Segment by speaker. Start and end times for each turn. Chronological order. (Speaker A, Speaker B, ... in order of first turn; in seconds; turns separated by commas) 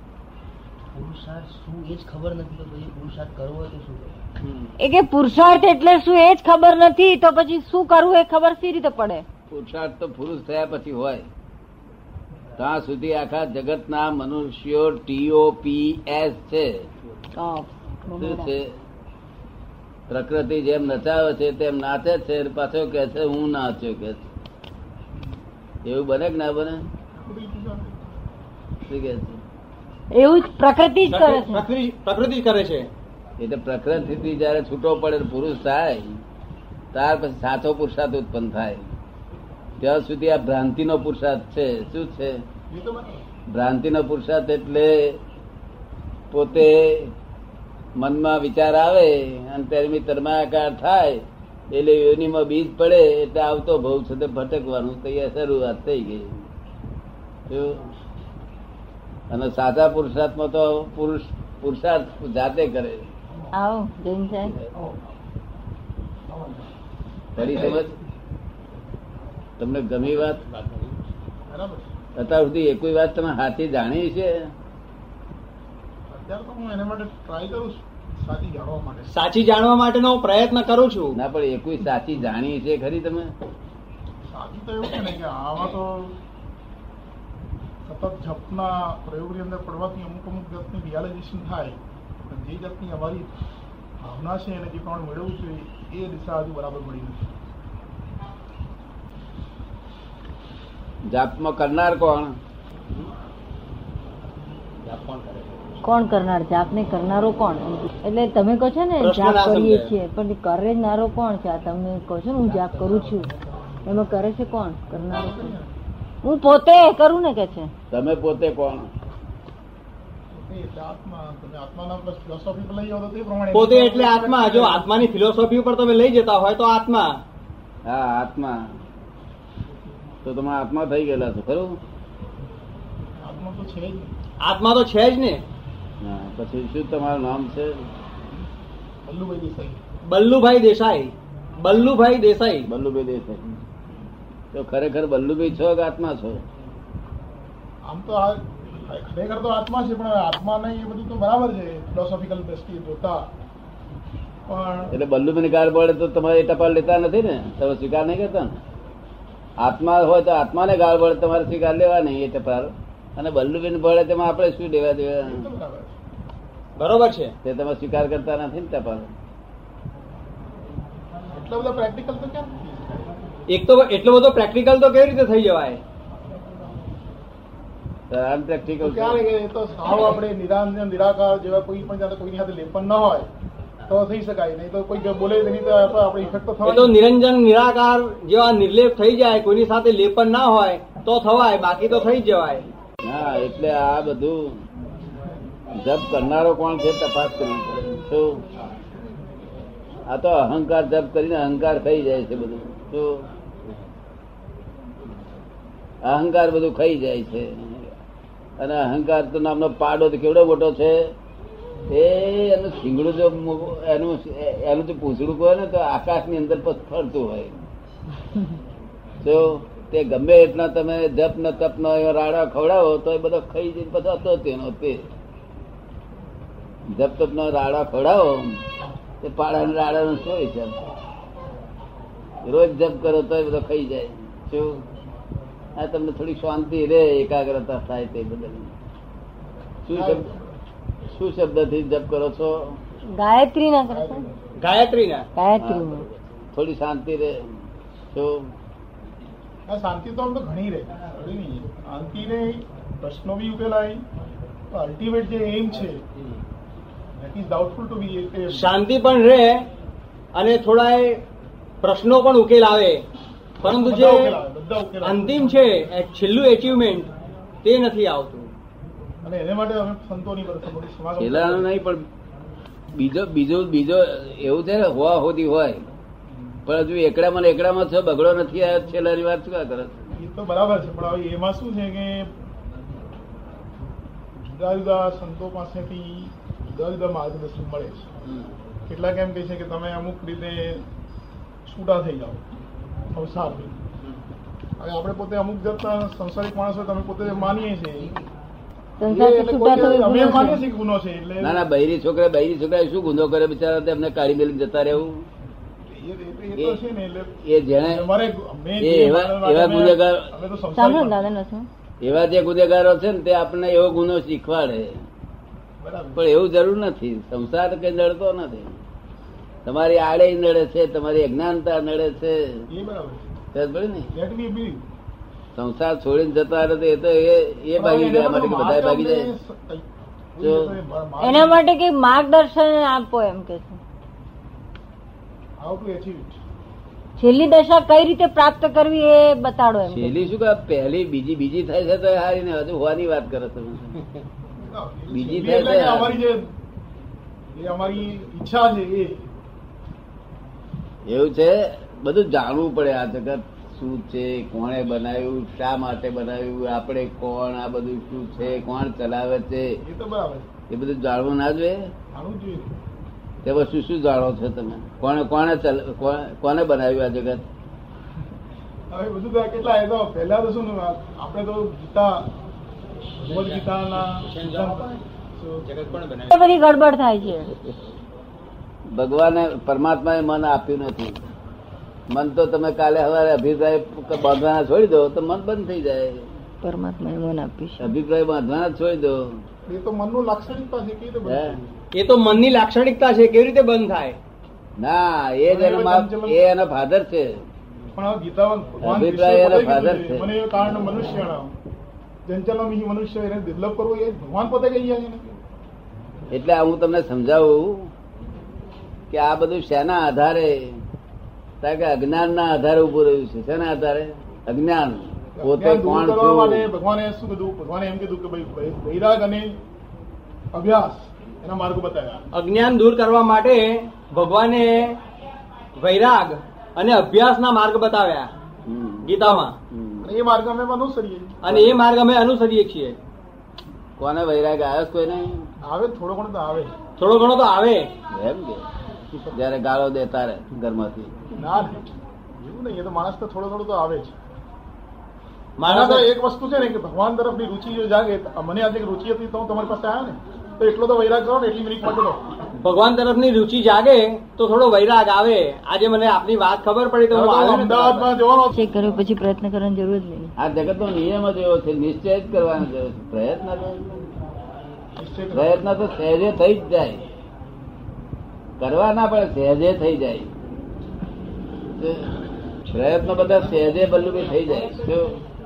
Speaker A: 0.9-4.2, Speaker B: 4.8-9.2, Speaker C: 9.5-11.3, Speaker C: 12.6-16.9, Speaker B: 17.3-18.5, Speaker C: 18.2-18.7, Speaker C: 20.1-24.2, Speaker C: 25.8-26.8, Speaker D: 27.1-28.2, Speaker C: 28.9-29.4, Speaker B: 30.1-31.6, Speaker E: 31.1-32.9, Speaker C: 33.4-36.2, Speaker C: 36.9-38.8, Speaker C: 39.8-42.4, Speaker D: 42.7-43.2, Speaker C: 43.5-45.2, Speaker C: 46.3-47.1, Speaker C: 48.0-56.3, Speaker C: 57.5-57.8, Speaker C: 59.3-63.0, Speaker B: 63.5-64.5, Speaker D: 66.3-66.7, Speaker C: 67.3-67.9, Speaker D: 67.4-67.8, Speaker C: 69.6-70.4, Speaker E: 70.5-70.9, Speaker D: 71.5-71.8, Speaker C: 72.2-74.5, Speaker D: 76.1-79.1, Speaker E: 79.1-81.2, Speaker C: 81.1-83.3, Speaker D: 84.3-86.1, Speaker D: 87.8-91.8, Speaker D: 92.3-93.3, Speaker D: 94.0-97.2, Speaker C: 101.1-102.4, Speaker E: 104.8-105.6, Speaker B: 105.8-113.3, Speaker E: 109.0-109.9, Speaker B: 113.8-115.5, Speaker D: 115.1-115.7, Speaker B: 116.2-117.7, Speaker C: 117.9-118.9, Speaker D: 120.3-124.9, Speaker E: 123.5-127.2, Speaker C: 127.8-128.7, Speaker C: 130.2-131.8, Speaker D: 133.2-134.1, Speaker E: 134.4-135.4, Speaker C: 136.0-137.7, Speaker D: 139.1-139.8, Speaker E: 140.0-142.7, Speaker C: 142.7-143.6, Speaker C: 144.5-146.4, Speaker D: 147.8-153.3, Speaker D: 154.5-154.9, Speaker C: 154.9-158.6, Speaker C: 159.6-165.5, Speaker D: 165.2-165.9, Speaker E: 166.8-167.3, Speaker C: 167.4-169.1, Speaker D: 171.3-173.1, Speaker E: 173.5-175.8, Speaker C: 178.1-179.2, Speaker D: 178.8-183.3, Speaker D: 183.9-187.0, Speaker E: 186.6-192.7, Speaker C: 193.0-194.6, Speaker C: 195.8-198.4, Speaker C: 200.1-203.2, Speaker C: 206.0-207.9, Speaker C: 208.6-211.1, Speaker C: 211.9-217.6, Speaker C: 219.2-225.1, Speaker C: 226.9-228.6, Speaker C: 229.2-230.8, Speaker C: 232.4-234.8, Speaker C: 235.8-238.7, Speaker C: 239.9-240.2, Speaker D: 239.9-240.6, Speaker C: 241.1-242.8, Speaker B: 243.1-244.2, Speaker D: 243.9-244.3, Speaker E: 244.6-245.2, Speaker B: 245.3-246.0, Speaker C: 245.6-247.4, Speaker C: 248.1-248.5, Speaker D: 249.7-254.0, Speaker D: 254.7-256.0, Speaker D: 257.2-258.8, Speaker E: 258.5-259.6, Speaker E: 260.3-261.2, Speaker E: 261.8-263.0, Speaker E: 263.6-264.4, Speaker D: 263.6-265.6, Speaker E: 265.0-267.1, Speaker E: 267.6-268.5, Speaker D: 269.2-271.7, Speaker C: 271.2-272.0, Speaker C: 272.9-275.9, Speaker D: 276.3-276.6, Speaker C: 276.6-279.9, Speaker D: 280.1-282.3, Speaker D: 284.4-288.1, Speaker D: 288.9-290.8, Speaker D: 291.6-292.4, Speaker D: 293.1-293.8, Speaker D: 294.8-298.1, Speaker D: 299.0-301.6, Speaker B: 299.0-300.6, Speaker C: 301.4-305.2, Speaker D: 305.9-311.2, Speaker C: 307.4-308.1, Speaker C: 308.8-310.3, Speaker B: 310.7-311.7, Speaker C: 312.0-315.0, Speaker D: 315.8-316.2, Speaker C: 316.1-318.8, Speaker C: 319.6-322.6, Speaker D: 322.7-323.2, Speaker C: 323.5-324.1, Speaker D: 324.1-324.8, Speaker C: 325.5-329.3, Speaker D: 327.8-331.6, Speaker C: 330.4-330.7, Speaker B: 331.2-333.8, Speaker D: 335.6-336.4, Speaker B: 337.2-340.1, Speaker C: 339.8-343.9, Speaker D: 344.5-346.4, Speaker C: 345.1-346.1, Speaker D: 347.5-349.3, Speaker C: 351.1-359.8, Speaker D: 359.8-360.5, Speaker C: 360.7-361.9, Speaker D: 362.1-362.8, Speaker C: 363.4-367.4, Speaker D: 368.9-372.3, Speaker E: 373.2-374.9, Speaker D: 373.2-375.7, Speaker E: 375.6-376.3, Speaker B: 376.3-377.5, Speaker C: 378.9-381.2, Speaker C: 382.1-386.2, Speaker B: 386.6-387.9, Speaker C: 387.8-389.4, Speaker D: 389.6-391.6, Speaker C: 391.2-391.6, Speaker E: 391.9-394.2, Speaker C: 394.8-397.4, Speaker D: 395.5-396.4, Speaker D: 397.9-401.5, Speaker C: 398.8-400.3, Speaker D: 402.2-405.3, Speaker C: 406.3-407.9, Speaker C: 409.1-410.8, Speaker C: 411.6-416.7, Speaker D: 415.4-419.5, Speaker D: 420.5-422.2, Speaker E: 422.3-424.9, Speaker E: 425.8-428.3, Speaker C: 428.6-430.1, Speaker E: 429.0-429.5, Speaker D: 430.0-431.4, Speaker E: 431.4-432.9, Speaker C: 431.5-431.8, Speaker C: 434.0-435.4, Speaker D: 435.6-436.7, Speaker E: 437.0-437.9, Speaker C: 438.1-438.6, Speaker C: 439.3-441.1, Speaker D: 441.4-441.8, Speaker D: 442.4-444.1, Speaker E: 445.6-446.1, Speaker D: 445.6-452.2, Speaker E: 452.6-458.1, Speaker D: 457.1-458.6, Speaker B: 458.5-460.3, Speaker C: 460.4-463.8, Speaker D: 465.0-465.6, Speaker C: 465.3-467.0, Speaker C: 468.6-470.3, Speaker C: 471.8-472.1, Speaker C: 472.7-475.2